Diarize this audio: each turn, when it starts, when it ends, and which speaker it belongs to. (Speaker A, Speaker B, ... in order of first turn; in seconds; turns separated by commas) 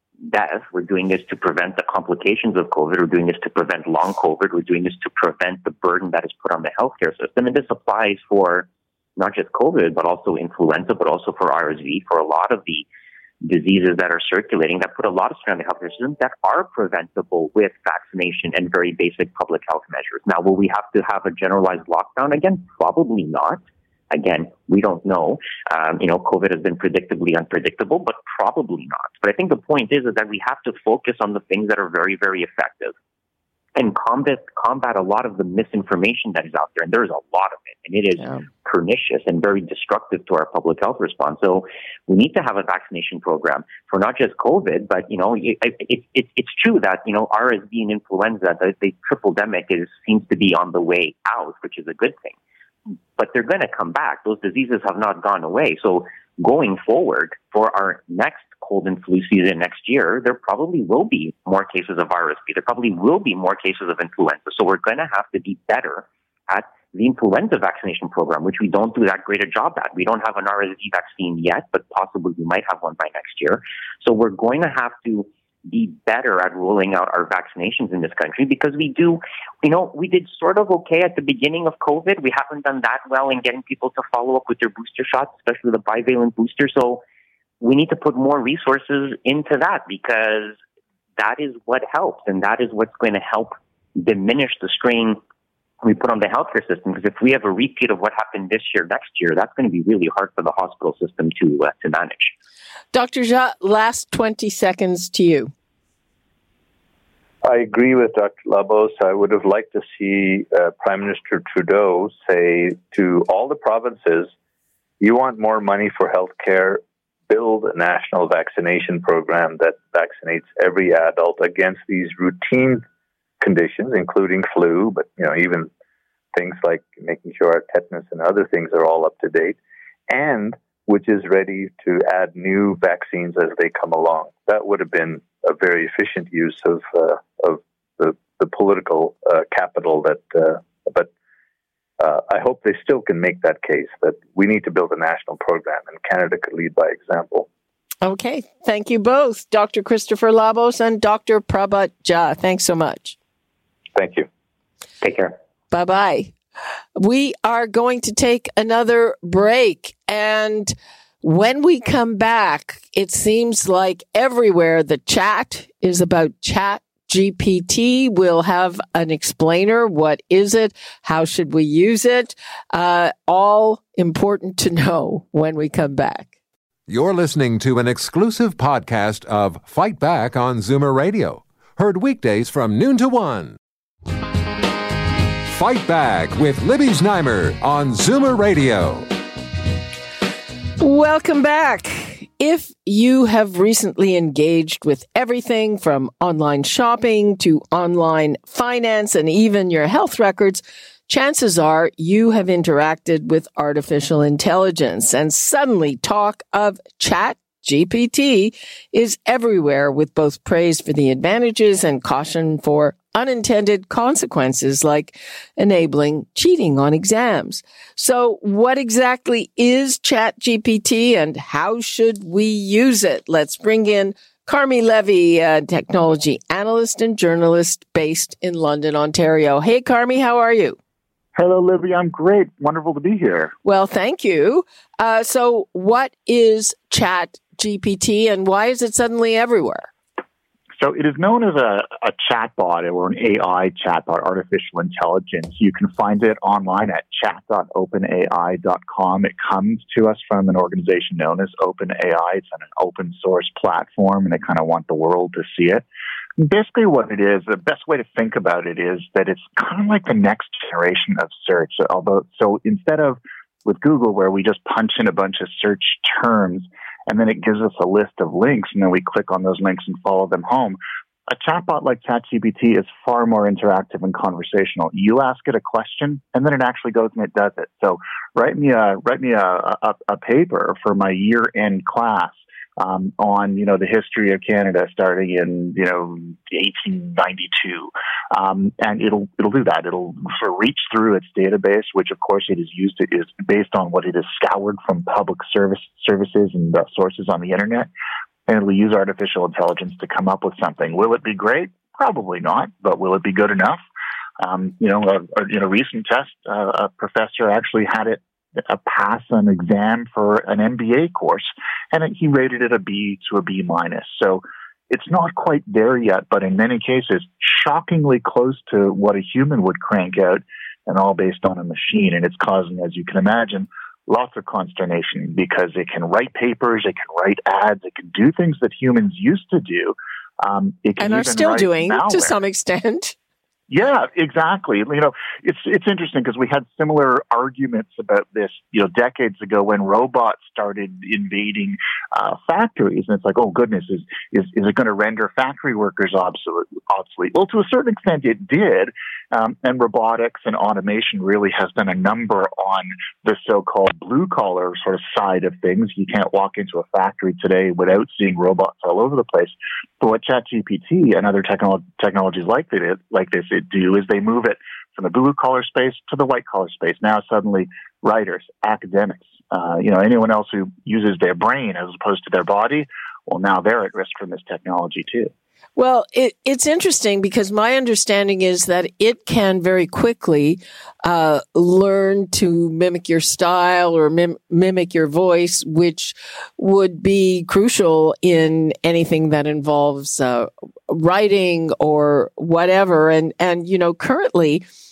Speaker A: 0.2-12.9, Speaker A: 13.4-33.0, Speaker A: 33.8-52.4, Speaker B: 38.2-38.5, Speaker A: 53.2-87.0, Speaker A: 87.6-90.6, Speaker A: 91.2-95.2, Speaker A: 95.8-102.3, Speaker B: 102.9-105.5, Speaker C: 107.4-114.3, Speaker C: 115.0-122.8, Speaker C: 123.4-125.7, Speaker C: 126.3-129.6, Speaker C: 130.1-141.1, Speaker C: 142.0-147.5, Speaker B: 148.0-153.2, Speaker C: 153.9-154.3, Speaker A: 155.0-155.3, Speaker B: 155.7-156.3, Speaker B: 157.0-176.3, Speaker D: 176.9-183.6, Speaker D: 185.4-189.1, Speaker B: 190.8-230.8, Speaker E: 231.3-233.5, Speaker B: 233.7-239.9, Speaker E: 240.8-255.8, Speaker E: 256.4-297.9, Speaker E: 298.5-303.8, Speaker E: 304.4-332.3, Speaker B: 331.0-333.1, Speaker E: 333.7-375.3, Speaker B: 375.8-394.6